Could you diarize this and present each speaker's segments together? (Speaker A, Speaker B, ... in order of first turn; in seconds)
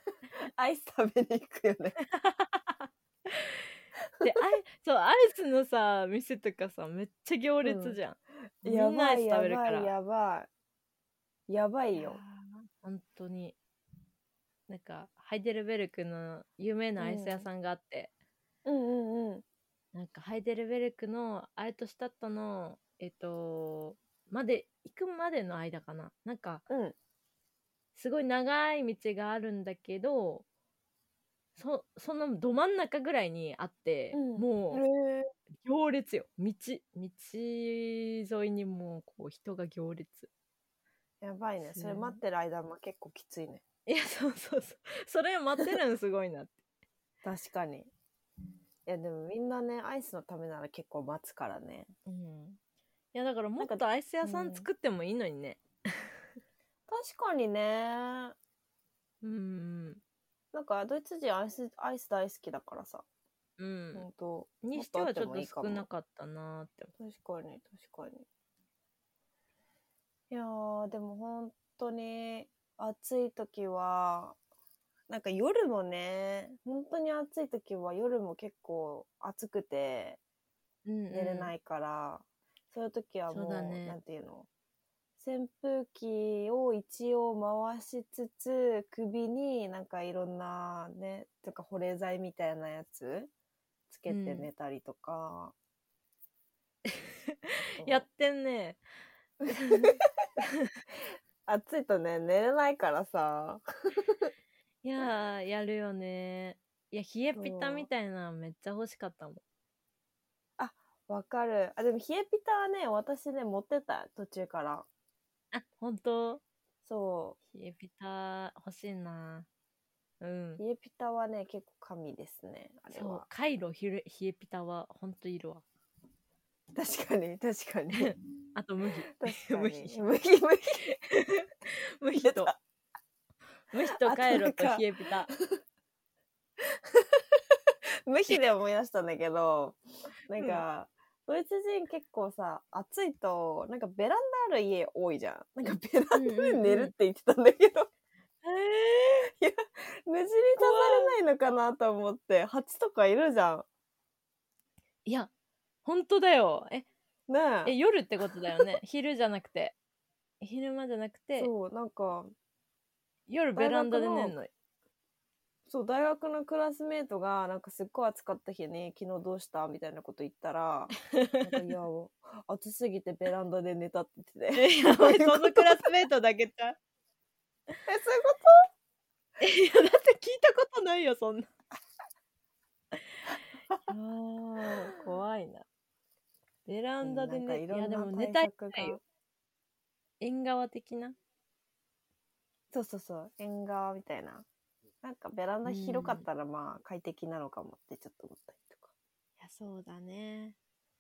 Speaker A: 0.6-2.0, 7.6-8.0, 8.6-10.5, 11.5-12.2, 17.0-17.5, 18.6-19.4, 26.7-26.9, 34.1-35.3, 41.2-43.6, 47.2-47.9, 48.9-51.9, 53.6-54.7, 56.9-58.4, 60.5-63.0, 64.0-65.9, 67.0-68.2, 70.3-74.4, 75.1-80.2, 81.1-84.5, 85.2-93.3, 93.9-95.5, 97.8-98.0, 99.4-99.9, 101.5-104.3, 107.4-107.9, 110.6-114.9, 116.8-117.4, 120.6-123.3, 126.7-128.2, 129.1-131.0, 132.2-132.6, 133.9-135.6, 136.6-147.9, 149.4-153.7, 157.3-157.7, 161.4-162.3, 163.6-164.3, 165.7-175.8, 177.9-178.7, 187.0-189.0, 192.7-194.5, 195.0-198.9
Speaker B: 2.0-3.6, 4.2-9.9, 11.9-13.6, 14.7-18.1, 19.9-26.6, 27.9-30.4, 31.6-34.8, 35.6-40.3, 41.6-42.2, 43.9-46.5, 52.1-52.6, 53.1-55.6, 59.2-60.0, 63.6-64.1, 64.6-66.9, 80.9-81.5, 83.3-84.0, 94.1-94.5, 96.9-98.8, 99.5-100.7, 104.8-109.4, 115.5-116.4, 117.5-119.5, 120.2-120.6, 122.9-125.7, 127.9-130.0, 130.8-132.5, 133.7-135.3, 140.4-140.6, 146.1-146.9, 148.4-149.3, 150.6-151.2, 155.1-155.3, 155.8-156.9, 157.7-159.8, 160.4-161.5, 163.3-164.5, 171.1-171.7, 174.5-176.8, 179.4-181.5, 183.9-185.7, 186.7-189.0, 190.2-191.2, 195.7-196.3, 199.4-200.6